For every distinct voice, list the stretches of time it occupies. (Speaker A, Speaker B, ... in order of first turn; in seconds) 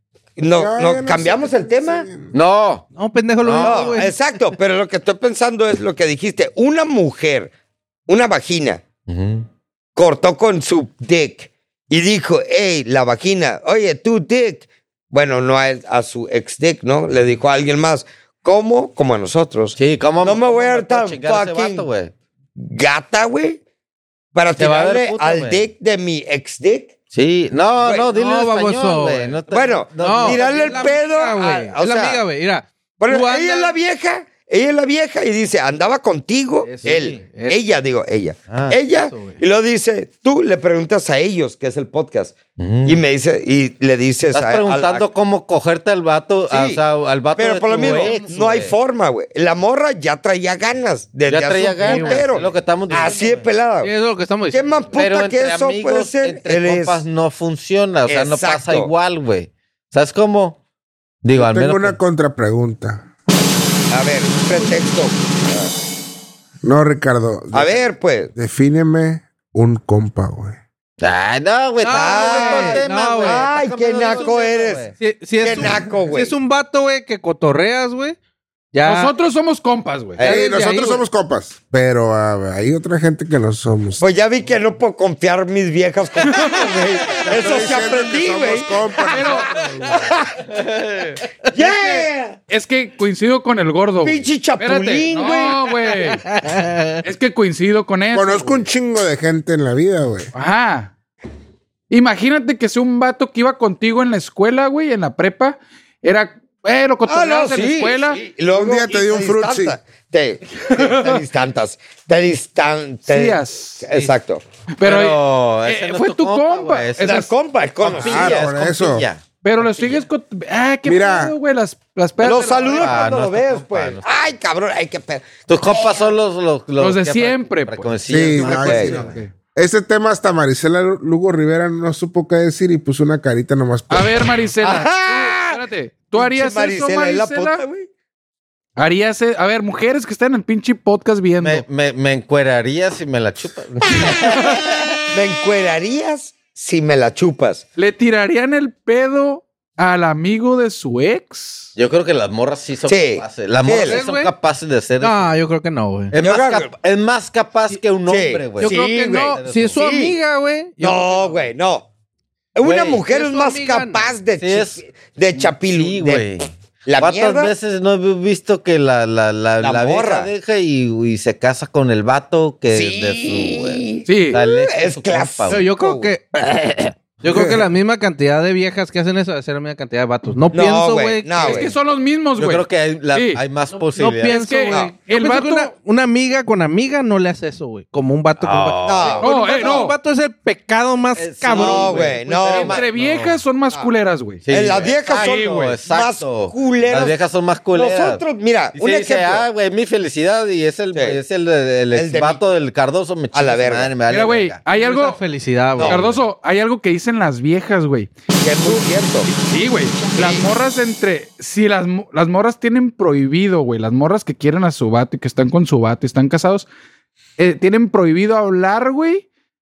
Speaker A: 0.4-2.1, 3.6-7.5, 8.1-8.8, 10.0-21.9, 22.6-23.6, 24.4-26.9, 27.8-28.1, 29.5-32.2, 33.0-45.1, 46.5-46.8, 47.4-53.9, 54.5-57.0, 58.1-58.9, 63.9-65.7, 67.5-68.3, 71.9-74.9, 75.4-76.3, 80.2-80.5, 84.0-88.7, 89.8-90.4, 91.5-92.4, 94.0-95.7, 107.1-114.4, 117.0-118.5, 122.2-126.1, 128.6-129.0, 134.6-135.6, 136.1-137.9, 145.1-147.7, 152.9-154.0, 156.2-156.7, 158.1-160.2, 160.8-161.9, 162.6-167.5, 169.6-170.3, 172.7-176.1, 180.5-181.7, 188.8-189.8, 191.5-192.8, 194.5-197.2, 197.7-199.5, 201.9-202.4, 203.3-203.9, 205.8-206.0, 208.4-209.3, 210.1-210.5
Speaker B: 0.5-2.3, 61.3-63.1, 66.6-67.8, 68.3-70.6, 80.2-84.1, 87.2-89.5, 98.1-100.3, 108.5-109.8, 118.0-119.1, 120.8-121.3, 128.1-134.1, 177.2-177.7
Speaker C: 2.3-2.9, 3.4-4.1, 9.1-9.5, 19.8-22.1, 24.6-25.7, 27.1-31.0, 36.8-37.2, 38.5-38.8, 42.6-43.0, 44.3-48.8, 51.3-53.5, 54.9-60.6, 61.2-62.0, 71.0-75.0, 90.5-91.2, 114.8-117.3, 117.8-120.0, 122.5-124.1, 125.5-129.1, 141.4-145.0, 151.8-155.3, 156.1-158.8, 159.3-159.8, 162.6-163.0, 164.4-164.8, 165.3-166.5, 167.0-175.6, 182.4-184.4, 188.4-189.2, 191.2-193.4, 194.5-198.2, 198.7-204.6, 205.8-206.2
Speaker D: 3.0-4.2, 28.1-29.4, 30.0-33.8, 36.6-37.6, 38.9-39.4, 51.8-52.5, 53.8-54.9, 71.8-73.5, 75.0-78.2, 78.7-79.1, 80.2-81.0, 89.5-90.0, 91.6-92.1, 95.9-97.0, 153.8-154.3, 155.0-156.2, 158.6-161.5, 163.1-164.1, 175.5-181.7, 183.7-192.2, 204.7-206.0
Speaker E: 78.8-80.2, 86.3-86.7, 89.1-89.9, 92.5-96.3, 97.0-98.6, 100.3-100.9, 101.9-108.3, 110.7-111.2, 113.1-113.9, 114.8-117.3, 119.4-123.0, 126.8-129.3, 133.9-137.6, 138.8-141.7, 147.8-151.7, 174.1-174.4, 181.4-183.4, 184.3-185.7, 189.2-190.0, 192.4-194.5, 195.1-195.8, 204.1-205.2, 205.9-208.1, 209.3-216.7, 217.4-219.3